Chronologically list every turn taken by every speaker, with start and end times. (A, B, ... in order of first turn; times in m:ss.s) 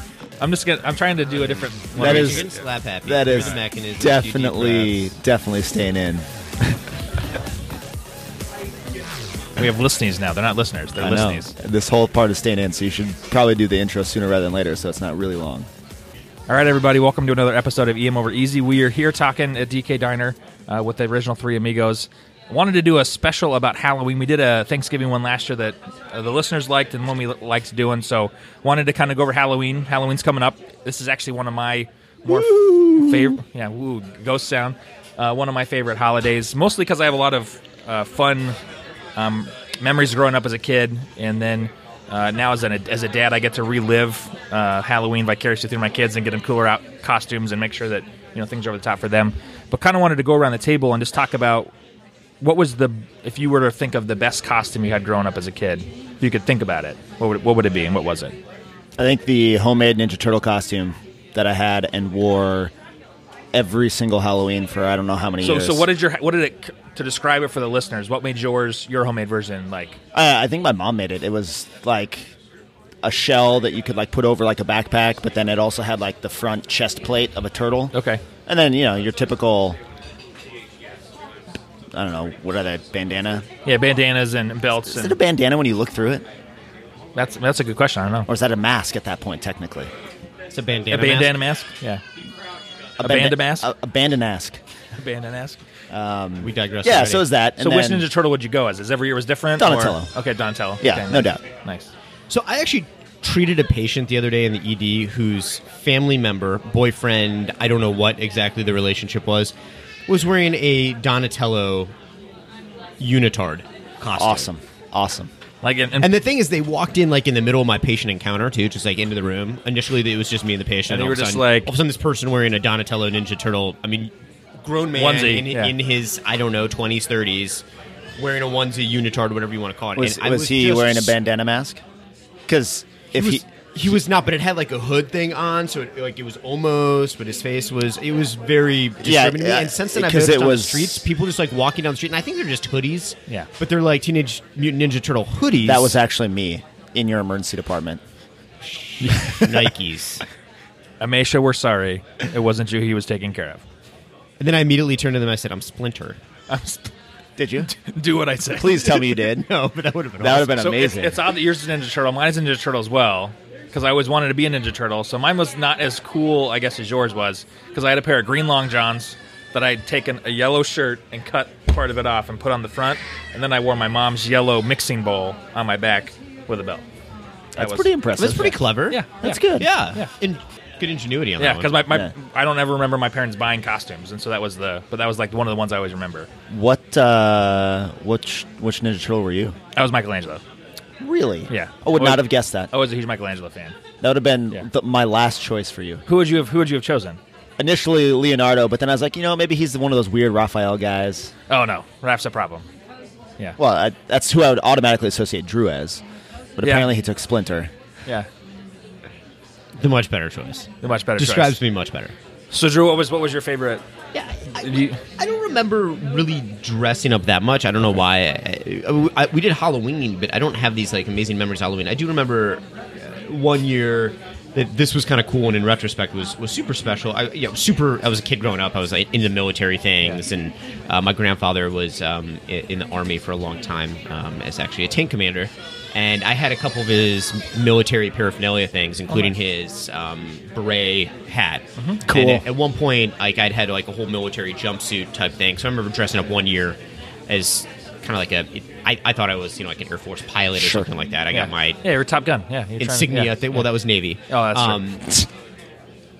0:00.4-0:02.6 A
0:01.9-0:05.0 B
0:02.0-0:02.5 C
0:03.0-0:06.2 C
0:09.6-0:11.5 A
0:11.0-0:15.7 C
0:16.5-0:38.6 A
0:32.3-0:33.2 B
0:39.2-0:51.7 A
0:52.4-0:58.4 A
0:59.0-1:02.7 C
1:03.5-1:05.9 C
1:05.4-1:10.0 A
1:10.1-1:12.3 C
1:13.0-1:17.9 C
1:17.9-1:18.2 A
1:18.4-1:19.8 C
1:21.9-1:23.4 C
1:23.6-1:25.2 A
1:24.8-1:26.2 C
1:27.1-1:28.3 A
1:28.3-1:29.9 C
1:30.5-1:31.4 B
1:30.9-1:32.0 A
1:33.0-1:34.6 C
1:33.0-1:33.7 A
1:35.0-1:35.6 A
1:35.9-1:38.1 C
1:36.4-1:37.3 B
1:37.6-1:41.9 A
1:39.6-1:40.1 C
1:40.8-1:41.4 C
1:42.3-1:49.5 B
1:50.1-1:51.9 B
1:53.0-1:54.5 B
1:54.1-1:55.3 C
1:55.6-1:56.1 A
1:56.0-2:07.6 B
2:00.9-2:01.7 A
2:04.9-2:05.7 A
2:08.2-2:11.2 B
2:10.0-2:11.8 C
2:12.5-2:14.0 C
2:13.1-2:26.0 B
2:19.0-2:21.1 C
2:25.6-2:28.0 C
2:28.7-2:30.2 B
2:29.0-2:29.7 A
2:31.0-2:33.6 A
2:34.4-2:36.2 B
2:36.5-2:36.9 A
2:37.4-2:37.7 C
2:37.6-2:39.0 A
2:38.5-2:39.5 C
2:38.8-2:40.6 B
2:40.2-2:41.2 C
2:40.5-2:56.8 A
2:57.5-2:58.6 C
2:57.6-2:57.9 A
2:58.2-2:59.0 B
2:58.9-2:59.4 A
2:59.2-2:59.7 C
2:59.6-3:01.8 B
3:01.4-3:06.3 A
3:06.5-3:09.6 C
3:09.7-3:10.4 A
3:11.0-3:12.7 C
3:11.5-3:13.7 A
3:14.0-3:16.0 C
3:16.0-3:17.2 A
3:17.6-3:21.3 C
3:21.5-3:22.6 A
3:23.6-3:26.0 C
3:26.6-3:27.7 C
3:26.6-3:26.9 A
3:29.8-3:32.1 B
3:30.8-3:31.6 A
3:32.5-3:33.8 A
3:34.1-4:11.8 B
3:34.6-3:35.0 A
4:01.8-4:02.0 A
4:02.0-4:02.4 C
4:10.6-4:10.9 C
4:11.3-4:13.7 A
4:12.8-4:15.2 B
4:14.3-4:14.8 A